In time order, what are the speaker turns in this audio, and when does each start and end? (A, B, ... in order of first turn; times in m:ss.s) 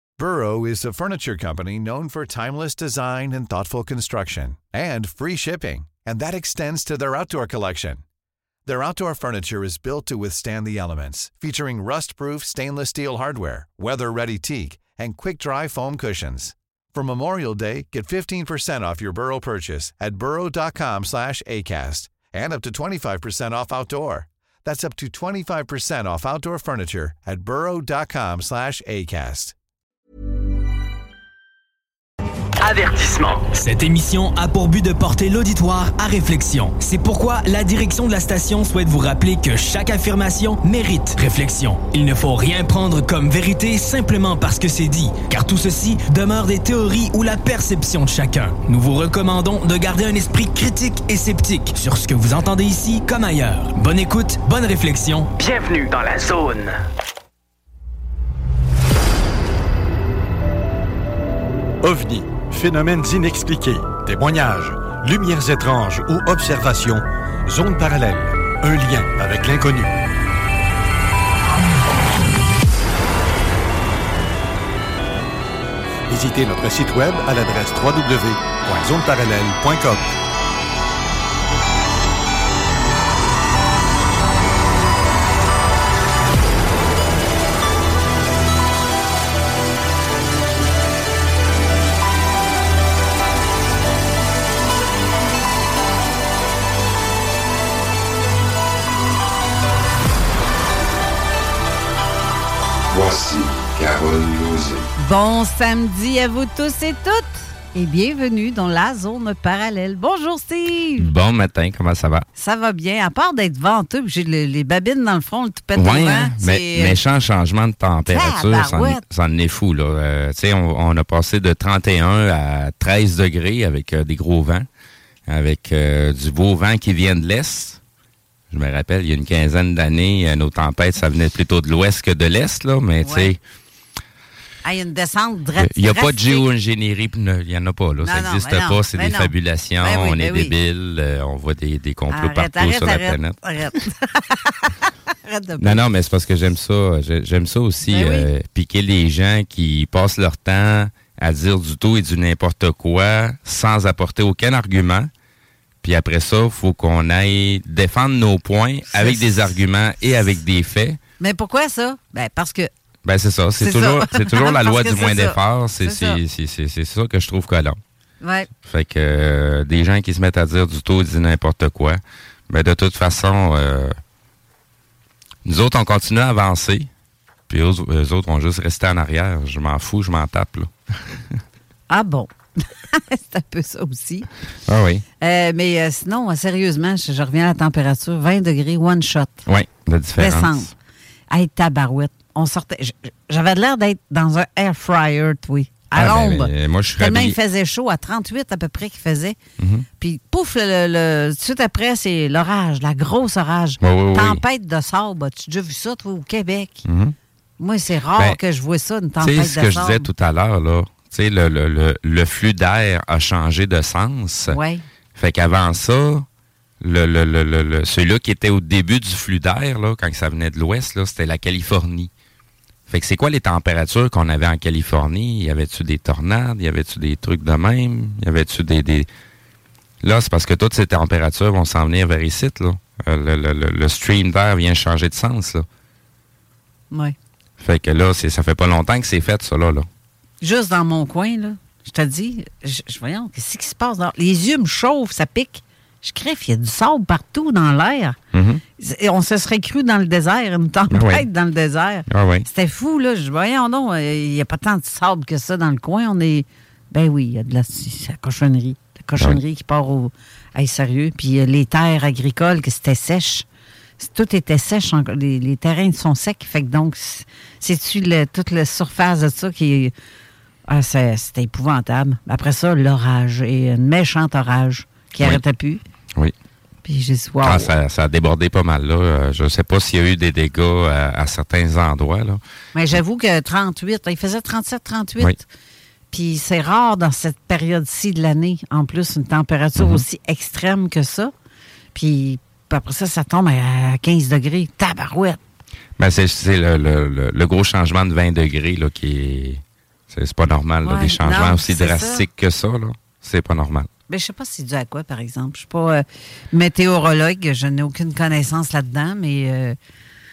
0:00.2-0:08.0 A
0:08.6-0:29.5 A
0:32.6-0:33.5 B
0:33.6-0:55.3 C
0:55.4-0:56.7 B
1:01.8-1:09.9 D
1:16.1-1:20.1 D
1:42.9-1:44.8 E
1:45.0-1:51.1 F
1:51.0-1:52.3 E
1:52.4-1:57.0 F
1:55.8-2:04.7 E
1:58.1-1:59.0 F
2:05.3-2:07.8 E
2:08.5-2:13.4 E
2:13.0-2:13.3 F
2:14.6-2:16.5 F
2:15.6-2:23.8 E
2:18.0-2:20.5 F
2:22.1-2:25.8 F
2:25.6-2:35.1 E
2:27.9-2:28.3 F
2:35.8-2:41.0 E
2:38.9-2:39.2 F
2:41.2-2:42.7 F
2:43.0-2:47.8 E
2:43.6-2:46.2 F
2:48.2-2:48.5 F
2:48.6-2:53.9 E
2:55.4-2:56.9 E
2:57.5-3:01.3 E
3:01.9-3:04.3 F
3:04.7-3:05.0 E
3:05.2-3:09.4 F
3:09.5-3:10.7 E
3:10.2-3:10.7 F
3:11.3-3:19.4 F
3:16.0-3:17.4 E
3:19.6-3:19.9 E
3:20.0-3:26.8 F
3:23.8-3:24.4 E
3:26.9-3:27.2 E
3:27.6-3:30.1 F
3:29.2-3:34.6 E
3:34.5-3:34.8 F
3:35.2-3:36.3 E
3:36.8-3:42.1 E
3:42.9-3:49.1 E
3:50.0-3:55.6 E
3:57.6-3:59.9 E
4:00.4-4:08.2 F
4:08.3-4:08.6 E
4:08.8-4:23.5 F
4:10.9-4:11.3 E
4:12.1-4:12.5 E
4:24.0-4:29.9 F
4:30.7-4:35.8 F
4:36.8-4:37.7 F
4:37.4-4:42.4 E
4:42.7-4:45.4 F
4:46.1-4:51.3 F
4:49.8-4:50.0 E
4:51.9-4:55.4 F
4:56.0-5:03.9 E
5:00.8-5:02.2 F
5:04.1-5:09.8 F